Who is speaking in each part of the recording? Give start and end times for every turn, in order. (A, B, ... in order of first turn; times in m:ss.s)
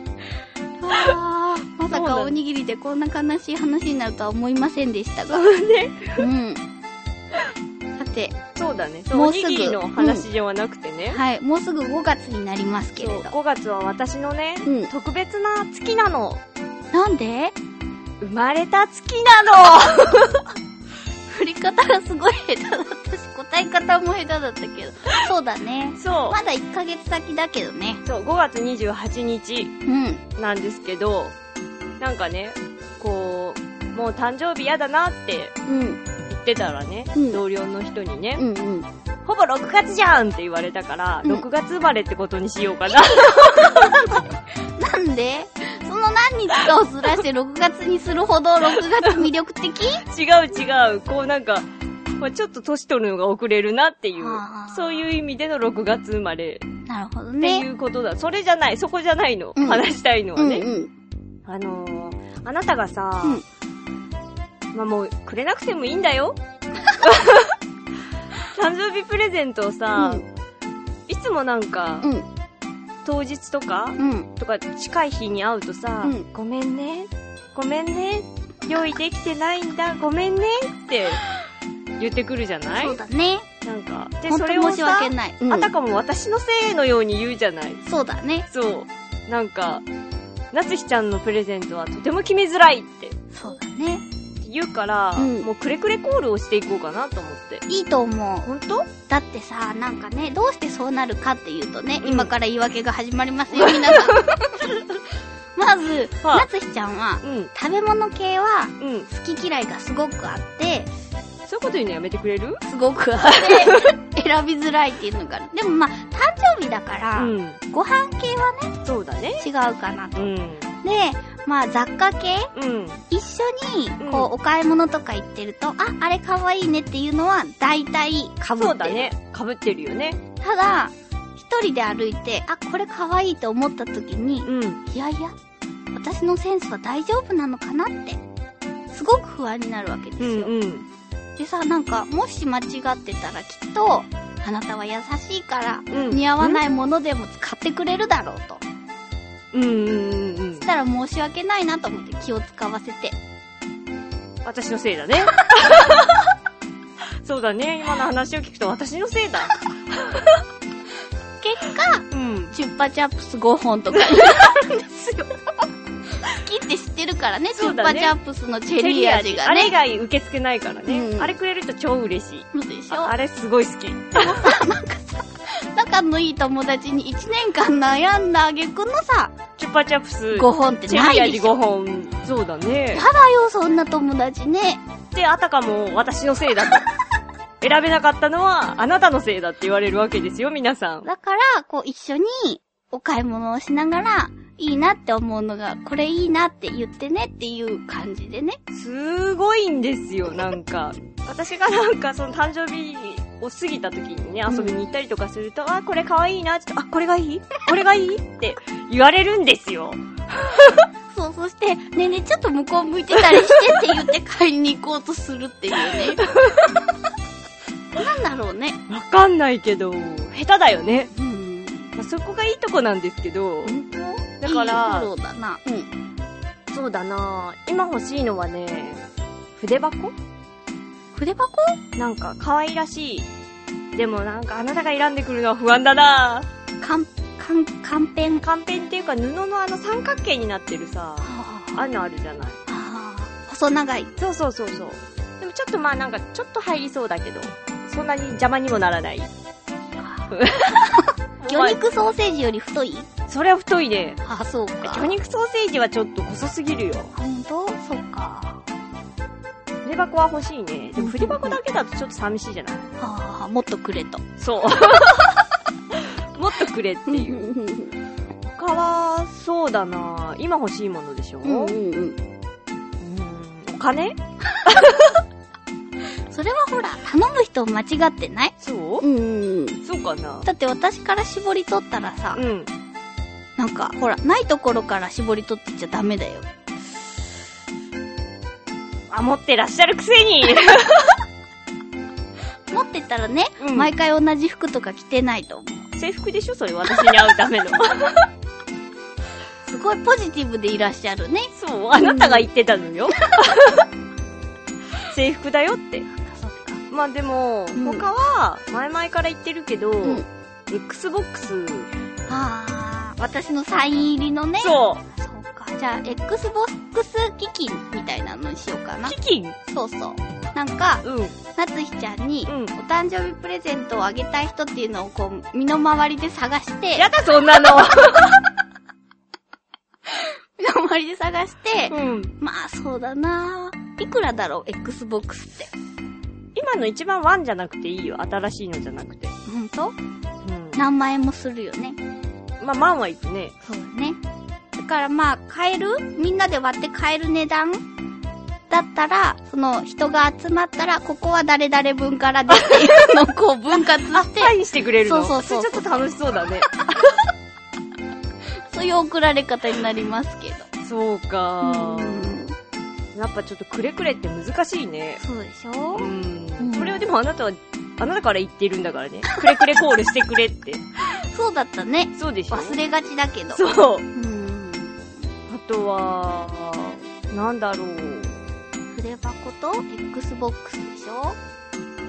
0:00.8-0:05.5 A
0:01.9-0:02.3 B
0:05.3-0:06.3 B
0:06.2-0:06.6 A
0:08.0-0:08.4 A
0:08.6-0:11.2 B
0:09.1-0:10.2 A
0:11.1-0:13.3 A
0:13.0-0:16.4 B
0:14.6-0:14.9 A
0:16.9-0:17.6 A
0:18.2-0:20.5 B
0:21.3-0:28.0 A
0:26.0-0:26.4 B
0:28.0-0:29.7 B
0:29.8-0:30.2 A
0:30.4-0:31.3 B
0:32.0-0:35.5 B
0:35.7-0:36.0 A
0:36.3-0:38.4 B
0:37.2-0:37.4 A
0:38.4-0:38.9 A
0:39.2-0:44.2 B
0:43.0-0:50.0 A
0:49.0-0:49.3 B
0:50.0-0:56.6 B
0:54.2-0:55.1 A
0:56.8-0:57.7 A
0:57.4-1:00.7 B
0:59.6-0:59.8 A
1:00.4-1:00.9 A
1:01.5-1:03.4 B
1:04.7-1:06.4 B
1:07.0-1:07.6 B
1:08.4-1:10.2 B
1:09.9-1:10.2 A
1:11.1-1:12.1 B
1:12.0-1:12.3 A
1:13.0-1:21.2 B
1:14.0-1:14.3 A
1:22.0-1:23.0 B
1:22.7-1:23.5 A
1:23.6-1:27.8 B
1:24.2-1:25.7 A
1:27.8-1:28.5 A
1:28.5-1:29.8 B
1:30.5-1:33.2 B
1:33.3-1:34.0 A
1:34.4-1:37.6 B
1:35.2-1:35.5 A
1:37.7-1:38.5 A
1:38.4-1:38.9 B
1:39.0-1:44.9 A
1:42.0-1:42.3 B
1:43.5-1:44.2 B
1:45.5-1:50.9 A
1:46.2-1:46.5 B
1:47.2-1:47.5 B
1:48.8-1:49.1 B
1:51.5-1:52.6 B
1:52.6-1:58.7 A
1:53.2-1:53.9 B
1:57.2-1:57.6 B
1:58.8-1:59.5 B
1:59.4-2:02.5 A
2:00.2-2:00.7 B
2:02.5-2:03.0 B
2:03.1-2:09.1 A
2:04.0-2:04.3 B
2:08.5-2:10.2 B
2:10.4-2:15.3 A
2:14.5-2:14.8 B
2:15.9-2:18.2 A
2:18.9-2:20.5 A
2:20.2-2:20.9 B
2:21.4-2:28.6 A
2:25.9-2:26.6 B
2:29.5-2:30.7 B
2:30.6-2:33.2 A
2:34.4-2:36.2 B
2:37.2-2:40.2 B
2:41.4-2:45.6 A
2:42.1-2:42.6 B
2:46.2-2:49.7 A
2:47.6-2:48.2 B
2:48.8-2:54.6 B
2:50.9-2:51.4 A
2:52.5-2:53.2 A
2:54.2-2:59.3 A
2:59.6-3:03.0 B
3:00.3-3:01.5 A
3:02.9-3:04.8 A
3:05.1-3:06.9 B
3:07.6-3:11.0 B
3:11.0-3:18.6 A
3:18.7-3:30.8 B
3:24.5-3:24.8 A
3:31.1-3:36.2 A
3:33.2-3:34.0 B
3:35.9-3:36.7 B
3:37.9-3:38.8 A
3:38.9-3:41.1 B
3:41.1-3:41.9 A
3:42.0-3:43.8 B
3:43.6-3:45.9 A
3:44.4-3:45.1 B
3:46.7-3:49.0 B
3:49.6-3:50.2 B
3:51.1-3:51.8 A
3:52.0-3:53.3 B
3:53.9-3:56.5 B
3:56.8-3:58.4 A
3:58.4-4:02.6 B
4:01.2-4:01.9 A
4:02.7-4:04.1 A
4:04.2-4:09.3 B
4:10.0-4:10.3 A
4:10.3-4:11.8 B
4:11.0-4:13.1 A
4:13.3-4:14.2 B
4:14.2-4:15.2 A
4:14.8-4:17.1 B
4:17.1-4:18.6 A
4:19.8-4:22.9 B
4:21.0-4:21.6 A
4:23.0-4:24.2 A
4:24.4-4:25.4 B
4:25.9-4:27.5 B
4:27.1-4:27.9 A
4:28.4-4:31.8 B
4:31.4-4:32.2 A
4:33.0-4:35.2 B
4:36.3-4:39.8 A
4:38.6-4:39.0 B
4:39.8-4:40.5 B
4:40.4-4:42.4 A
4:42.3-4:42.7 B
4:43.6-4:46.5 A
4:49.1-4:51.2 B
4:52.7-4:55.9 A
4:53.6-4:53.9 B
4:55.9-4:58.3 B
4:59.6-5:02.5 A
5:01.5-5:03.9 B
5:05.1-5:06.1 B
5:06.1-5:06.8 A
5:06.9-5:11.9 B
5:07.8-5:08.0 A
5:12.3-5:27.1 A
5:14.6-5:15.0 B
5:19.0-5:19.6 B
5:21.0-5:21.4 B
5:22.5-5:22.7 B
5:27.0-5:28.4 B
5:30.1-5:35.7 A
5:31.9-5:32.3 B
5:36.5-5:39.4 B
5:39.4-5:39.9 A
5:40.4-5:40.8 B
5:40.8-5:42.0 A
5:42.6-5:43.5 B
5:43.6-5:44.2 A
5:44.8-5:47.8 A
5:48.7-5:56.1 A
5:52.5-5:53.2 B
5:53.9-5:56.7 B
5:58.7-6:00.7 A
6:00.8-6:02.4 B
6:01.6-6:02.6 A
6:03.1-6:05.2 B
6:05.2-6:07.1 A
6:05.9-6:10.8 B
6:11.1-6:15.1 A
6:12.1-6:12.8 B
6:13.5-6:14.0 B
6:15.5-6:18.4 B
6:18.9-6:21.4 A